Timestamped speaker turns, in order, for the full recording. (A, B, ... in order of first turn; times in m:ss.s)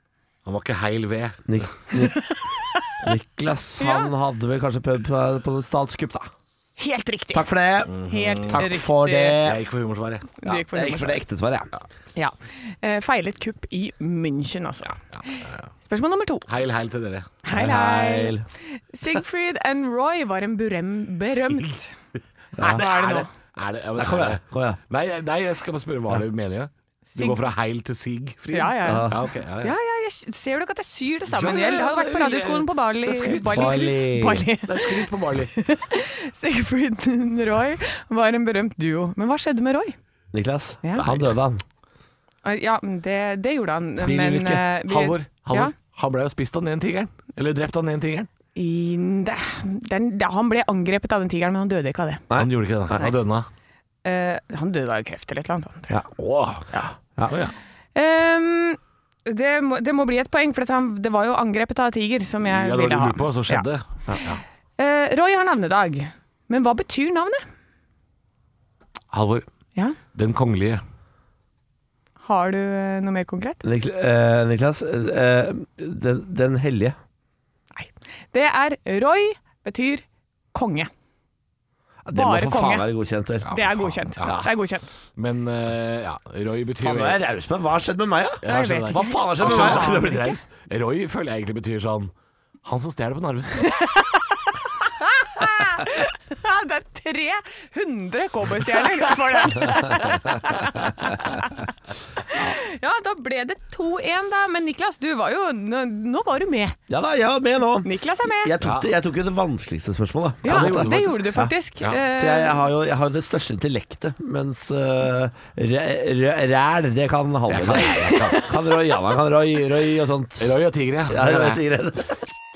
0:00.4-0:01.6 A
0:01.5-0:02.2 B
0:03.0-0:06.3 B
0:03.8-0:04.1 C
0:06.8-0:09.4 C
0:07.3-0:09.6 B
0:07.9-0:08.7 A
0:09.4-0:10.5 A
0:10.4-0:11.2 C
0:10.5-0:11.7 B
0:12.2-0:16.5 C
0:15.1-0:15.6 A
0:16.5-0:17.3 A
0:17.4-0:21.9 C
0:17.5-0:18.4 B
0:21.4-0:21.7 A
0:22.6-0:22.8 B
0:22.6-0:23.3 C
0:22.6-0:29.7 A
0:24.0-0:24.8 B
0:27.1-0:27.4 C
0:28.5-0:29.1 C
0:28.8-0:29.2 B
0:29.6-0:40.0 C
0:31.2-0:34.0 A
0:33.4-0:34.4 B
0:34.6-0:35.5 A
0:40.3-0:41.6 B
0:41.0-0:41.4 A
0:42.4-0:45.7 C
0:44.0-0:44.6 B
0:44.9-0:48.3 A
0:48.6-0:52.2 C
0:52.3-0:53.1 B
0:52.4-0:53.5 A
0:54.0-0:56.0 C
0:56.1-0:56.7 A
0:57.3-0:57.5 A
0:57.9-1:03.7 C
1:02.4-1:04.4 A
1:04.8-1:07.4 C
1:09.1-1:09.4 A
1:10.1-1:10.8 A
1:12.2-1:13.6 C
1:13.6-1:17.0 B
1:17.8-1:20.9 C
1:22.0-1:23.5 B
1:22.1-1:22.9 C
1:23.5-1:24.5 A
1:23.5-1:24.8 C
1:25.2-1:27.2 A
1:26.8-1:30.4 B
1:28.4-1:32.1 A
1:28.4-1:30.3 C
1:32.6-1:33.8 A
1:33.6-1:41.6 C
1:42.3-1:46.8 C
1:46.9-1:51.5 B
1:47.8-1:48.5 C
1:48.6-1:48.9 A
1:50.4-1:52.6 C
1:50.4-1:52.0 A
1:52.1-2:00.5 B
1:57.5-1:58.4 A
1:57.8-1:58.5 C
2:00.4-2:01.6 A
2:01.1-2:02.2 B